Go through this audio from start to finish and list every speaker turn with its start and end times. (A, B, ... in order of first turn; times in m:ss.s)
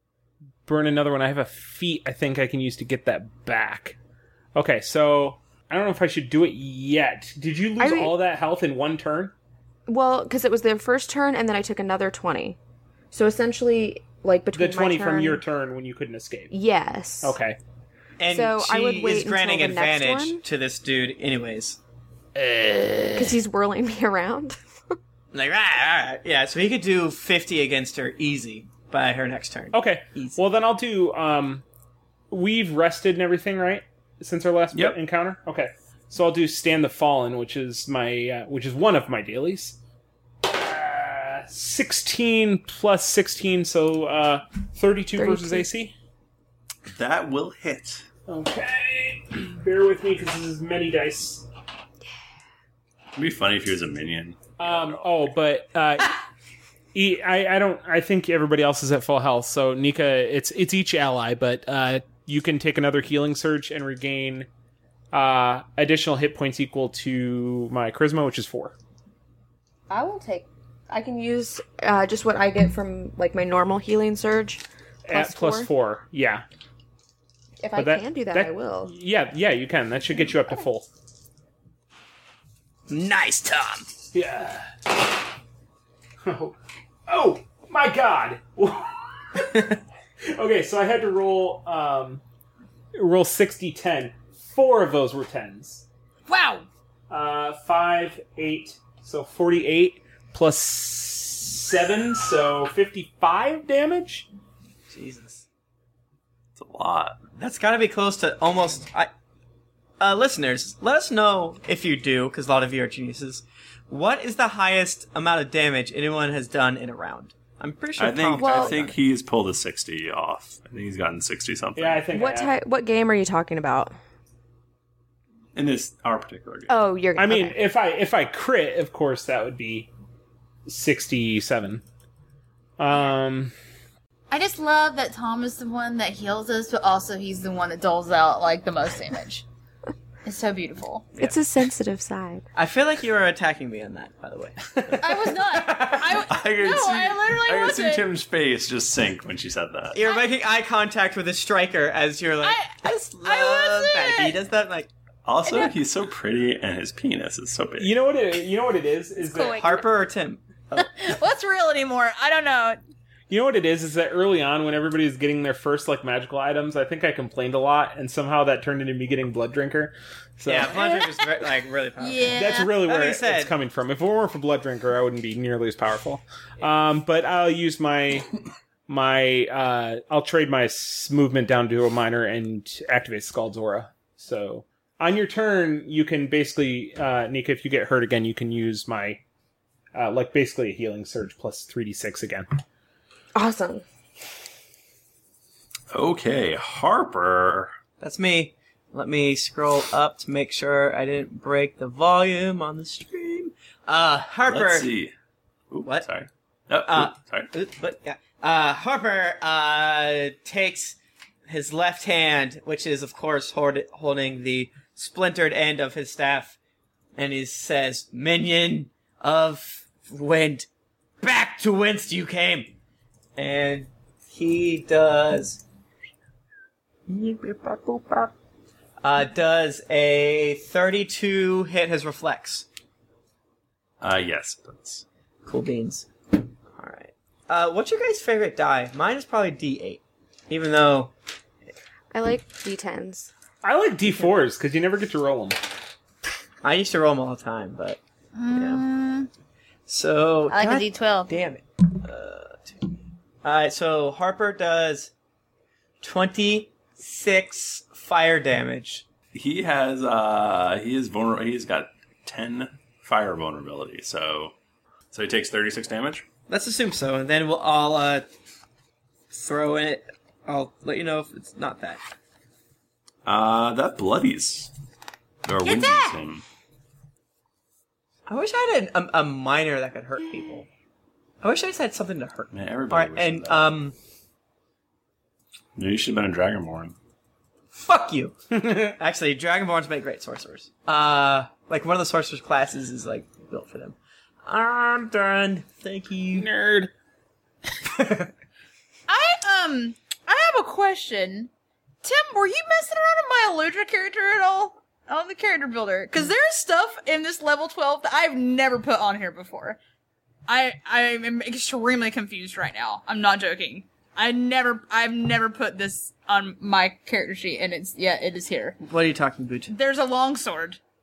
0:00.6-0:04.0 A
0:04.5-0:09.3 A
0:07.8-0:08.2 B
0:09.9-0:12.6 B
0:13.1-0:15.4 B
0:14.5-0:16.5 A
0:16.5-0:17.4 B
0:17.2-0:17.6 A
0:18.2-0:21.8 C
0:18.3-0:20.4 B
0:22.3-0:23.4 A
0:23.1-0:24.9 B
0:25.3-0:30.4 C
0:29.7-0:31.6 A
0:32.3-0:39.8 A
0:34.7-0:35.0 D
0:40.4-0:45.9 A
0:45.2-0:45.7 B
0:46.9-0:48.0 D
0:48.3-0:51.4 A
0:53.1-0:55.4 D
0:54.6-0:56.2 A
0:56.9-1:04.5 A
1:05.1-1:08.7 A
1:09.9-1:15.7 B
1:15.0-1:16.4 A
1:17.6-1:18.9 B
1:17.8-1:20.9 A
1:20.3-1:20.6 B
1:22.9-1:23.9 C
1:24.1-1:24.9 A
1:26.2-1:26.5 A
1:27.1-1:32.2 A
1:32.9-1:35.8 A
1:36.3-1:36.6 E
1:37.1-1:44.3 A
1:44.9-1:45.4 C
1:46.6-1:47.2 D
1:47.4-1:49.1 C
1:50.0-1:59.0 C
1:58.0-2:02.0 D
1:58.4-1:58.8 B
2:01.7-2:02.5 A
2:02.1-2:03.9 B
2:05.5-2:06.7 D
2:06.7-2:07.6 B
2:07.2-2:09.9 A
2:10.7-2:11.8 A
2:12.8-2:13.5 A
2:14.3-2:19.4 E
2:20.2-2:21.1 E
2:21.2-2:22.4 B
2:22.5-2:26.2 C
2:25.0-2:28.0 E
2:26.2-2:30.0 D
2:29.9-2:34.9 C
2:30.0-2:30.3 E
2:32.4-2:34.4 E
2:35.2-2:37.9 D
2:35.5-2:35.7 E
2:37.8-2:39.6 A
2:39.4-2:40.9 C
2:40.8-2:42.8 E
2:43.3-2:50.8 A
2:50.4-2:53.5 C
2:50.7-2:51.2 E
2:52.0-2:52.7 E
2:52.3-2:58.3 A
2:58.9-3:09.2 A
3:09.9-3:12.5 A
3:13.3-3:13.8 B
3:15.9-3:17.7 D
3:18.0-3:24.9 C
3:24.4-3:25.1 D
3:25.7-3:27.5 D
3:26.9-3:36.6 C
3:37.2-3:40.7 C
3:41.2-3:42.7 C
3:43.4-3:45.6 C
3:47.1-3:48.3 C
3:49.0-3:52.6 C
3:54.0-3:55.0 D
3:55.4-3:56.1 C
3:56.7-4:01.1 C
4:02.1-4:03.3 B
4:03.6-4:05.6 A
4:06.6-4:08.0 C
4:08.3-4:09.3 E
4:08.5-4:08.8 C
4:09.9-4:12.9 C
4:10.5-4:11.3 E
4:13.4-4:15.1 C
4:16.0-4:19.0 C
4:19.3-4:24.5 D
4:25.1-4:26.2 D
4:26.5-4:28.2 C
4:29.3-4:32.0 C
4:33.2-4:34.7 D
4:35.4-4:36.4 D
4:35.6-4:36.1 E
4:38.3-4:40.7 C
4:41.4-4:43.9 C
4:42.5-4:43.8 D
4:45.8-4:46.9 D
4:47.7-4:48.4 C
4:48.5-4:48.9 A
4:49.0-4:54.0 C
4:54.5-4:56.5 C
4:54.8-4:55.3 A
4:56.3-4:56.9 A
4:57.9-4:58.3 C
4:59.1-5:01.5 E
5:02.0-5:09.8 E
5:10.5-5:18.8 E
5:18.8-5:19.7 C
5:19.7-5:20.8 E